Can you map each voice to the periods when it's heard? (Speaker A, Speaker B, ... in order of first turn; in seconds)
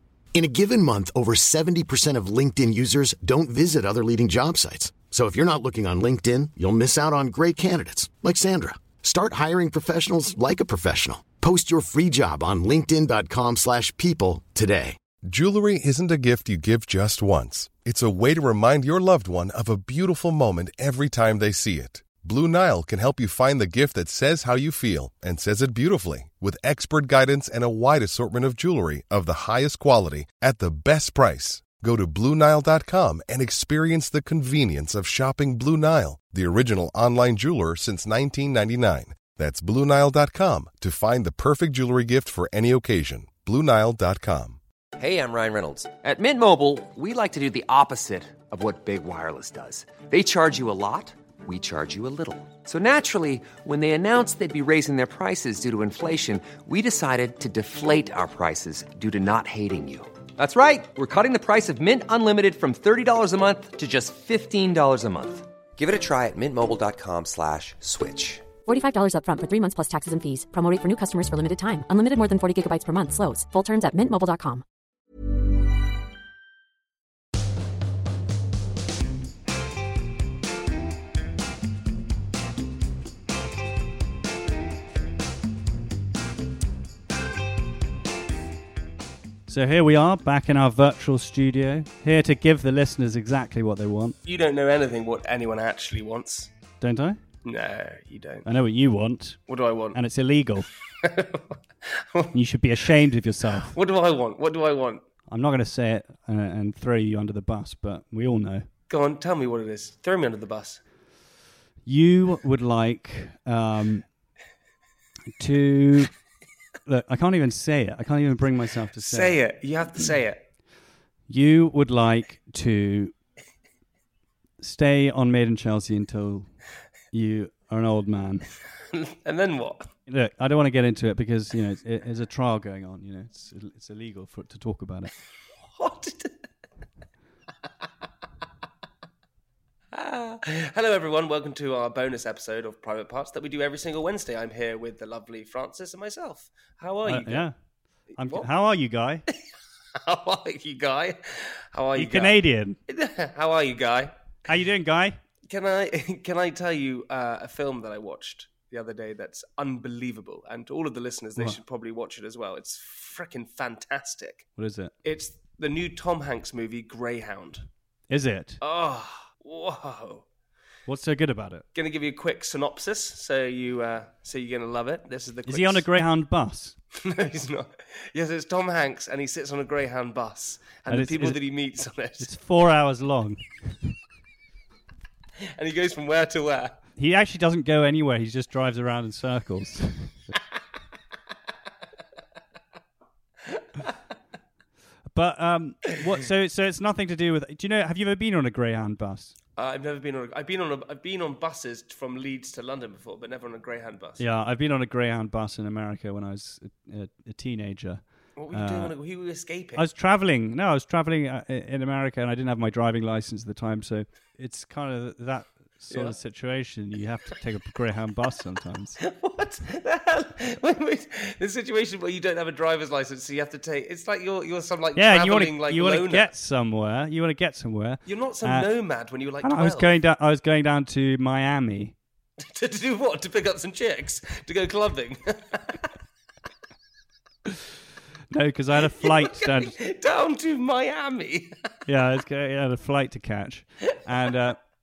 Speaker A: 0.3-15.0
Speaker B: 15.2-44.6
Speaker C: 45.0-68.5
Speaker D: 68.6-74.6
Speaker E: 89.5-94.2, 96.8-97.2, 98.4-99.4, 99.9-100.7, 102.3-103.7, 105.3-108.7, 111.8-114.1, 115.4-116.1, 116.8-119.4, 121.3-123.1, 124.6-126.5, 127.1-128.5, 130.1-135.1, 147.0-147.6, 148.1-149.2, 151.9-152.8, 154.5-155.2, 164.6-164.9, 168.1-168.6, 170.8-171.7, 175.5-176.8, 180.9-181.4, 182.0-183.9, 187.0-190.2, 195.1-199.3, 204.2-208.9, 209.7-219.0, 224.9-228.7, 229.4-231.9, 238.3-239.7, 241.8-244.6
Speaker F: 94.2-96.5, 97.4-98.4, 99.5-100.0, 101.0-102.3, 103.5-105.0, 108.9-110.8, 119.0-120.4, 128.9-129.9, 135.7-136.3, 139.9-147.5, 148.2-148.5, 150.0-154.1, 155.5-164.4, 165.0-167.7, 168.6-170.2, 171.7-175.9, 177.0-182.3, 185.5-186.8, 199.6-204.2, 208.4-209.8, 215.9-216.2, 219.1-226.3, 228.1-229.9, 232.4-235.9, 238.8-241.5